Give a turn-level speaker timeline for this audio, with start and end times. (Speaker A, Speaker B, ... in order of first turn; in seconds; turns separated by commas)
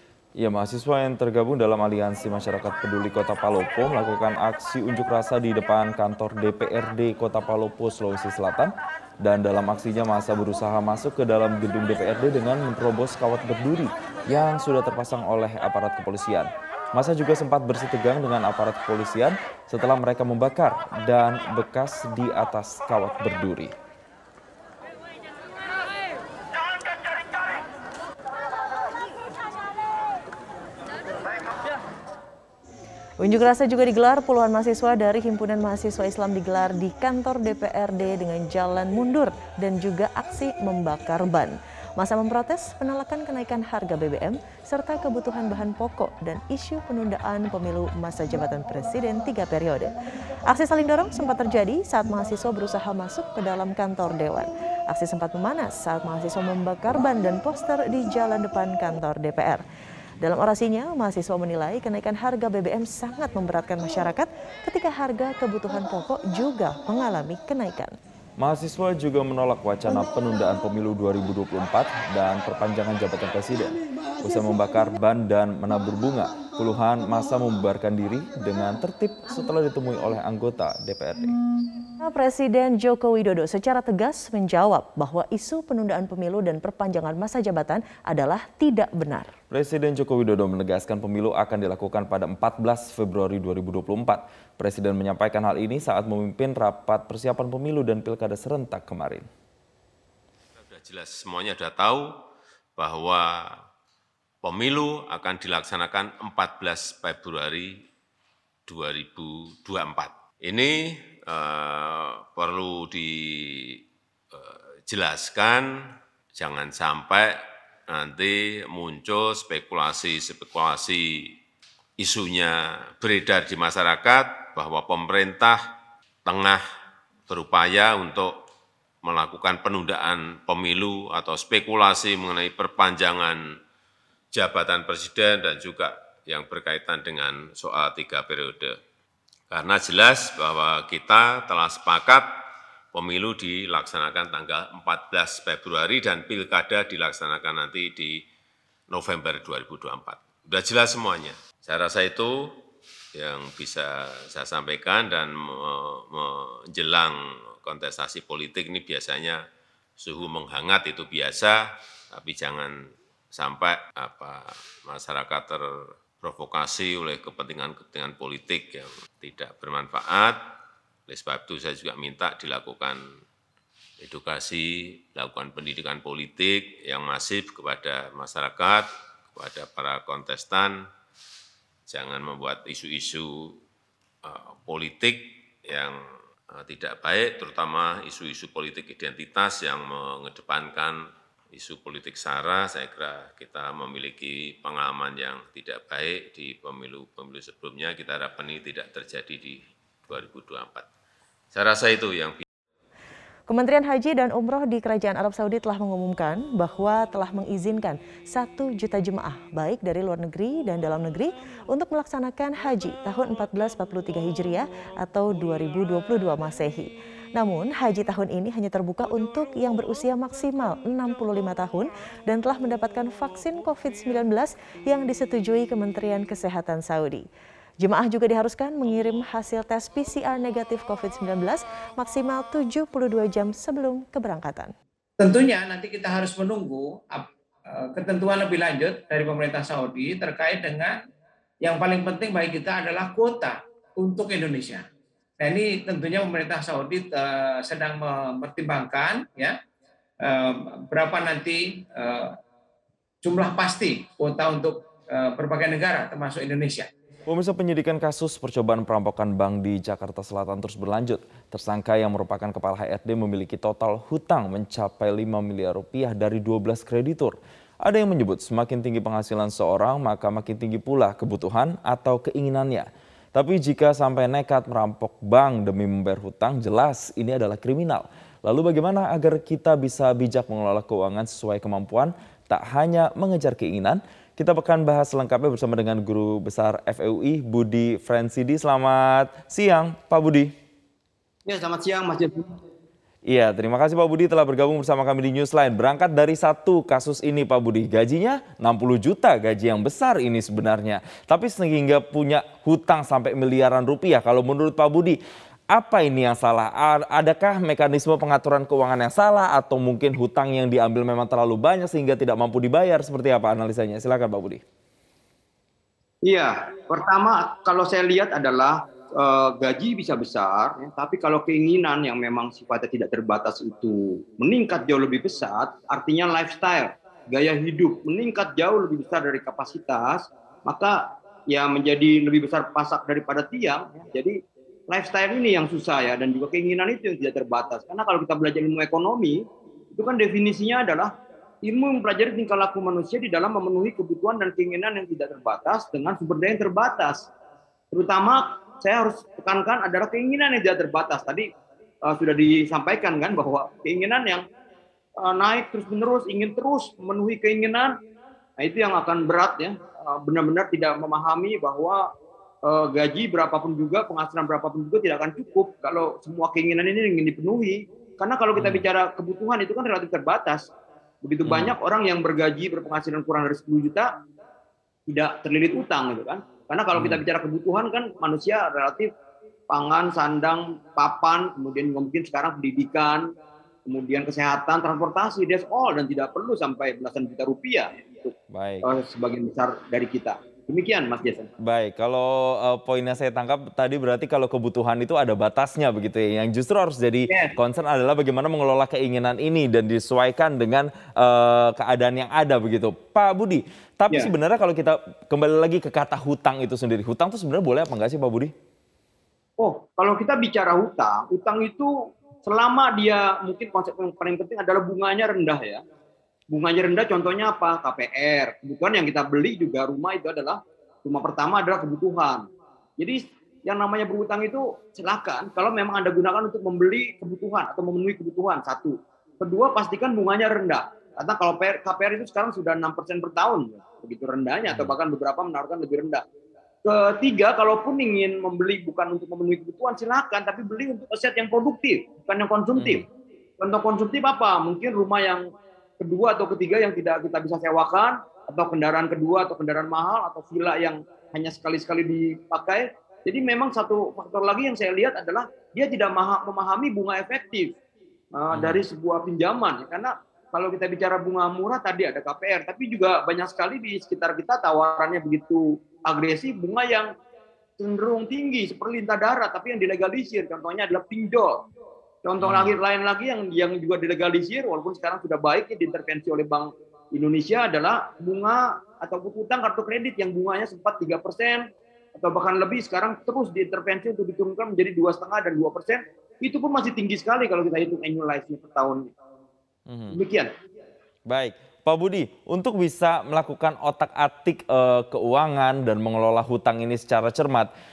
Speaker A: 0.4-23.7, Speaker B: 33.2-49.9, Speaker B: 50.5-59.6, Speaker B: 60.2-67.9, Speaker A: 68.4-81.4, Speaker B: 82.0-89.3, Speaker A: 89.5-99.3, Speaker C: 100.6-102.1, Speaker C: 102.8-103.4, Speaker C: 104.4-107.7, Speaker C: 108.7-113.8, Speaker C: 114.3-115.7, Speaker C: 116.3-117.3, Speaker C: 117.9-121.3, Speaker C: 122.0-125.6, Speaker C: 126.2-126.6, Speaker C: 127.3-128.3, Speaker C: 129.0-133.4, Speaker C: 134.3-138.8, Speaker C: 139.5-142.3, Speaker C: 142.9-148.2, Speaker C: 148.9-152.5, Speaker C: 153.2-159.4, Speaker C: 160.0-161.6, Speaker C: 162.1-162.7, Speaker C: 163.3-165.6, Speaker C: 166.2-170.4, Speaker C: 171.1-173.0, Speaker C: 174.0-180.8, Speaker C: 181.9-183.6, Speaker C: 184.2-186.0, Speaker C: 186.5-191.0, Speaker C: 191.5-200.9, Speaker C: 201.5-202.4, Speaker B: 203.5-227.2, Speaker B: 227.8-234.7, Speaker D: 235.2-241.1, Speaker D: 241.6-244.9, Speaker D: 245.4-249.6, Speaker D: 250.2-252.4, Speaker D: 253.2-256.9, Speaker A: 257.3-290.5, Speaker E: 291.5-292.5, Speaker A: 293.3-305.2, Speaker A: 305.7-314.6, Speaker E: 316.2-334.3, Speaker E: 334.9-341.1, Speaker E: 341.6-347.3, Speaker E: 347.9-351.5, Speaker E: 352.1-354.4, Speaker E: 355.2-357.9, Speaker E: 358.6-362.0, Speaker E: 362.6-370.7, Speaker A: 368.6-368.8, Speaker E: 371.2-374.1, Speaker A: 371.4-371.7, Speaker E: 375.1-379.1, Speaker A: 377.0-377.2, Speaker E: 379.7-383.2, Speaker E: 383.9-391.5, Speaker A: 388.5-388.9, Speaker A: 391.6-408.5, Speaker E: 409.6-411.9, Speaker E: 412.4-415.8, Speaker E: 416.5-422.4, Speaker E: 423.0-436.2, Speaker A: 434.7-434.9, Speaker E: 436.9-443.1, Speaker A: 442.8-443.0, Speaker E: 443.6-445.4, Speaker E: 446.0-457.8, Speaker E: 458.3-467.1, Speaker A: 458.5-458.8, Speaker E: 467.8-471.6, Speaker E: 472.2-481.6, Speaker A: 472.4-472.7, Speaker E: 482.2-489.0, Speaker A: 489.9-490.2, Speaker E: 490.1-490.5, Speaker A: 491.3-497.7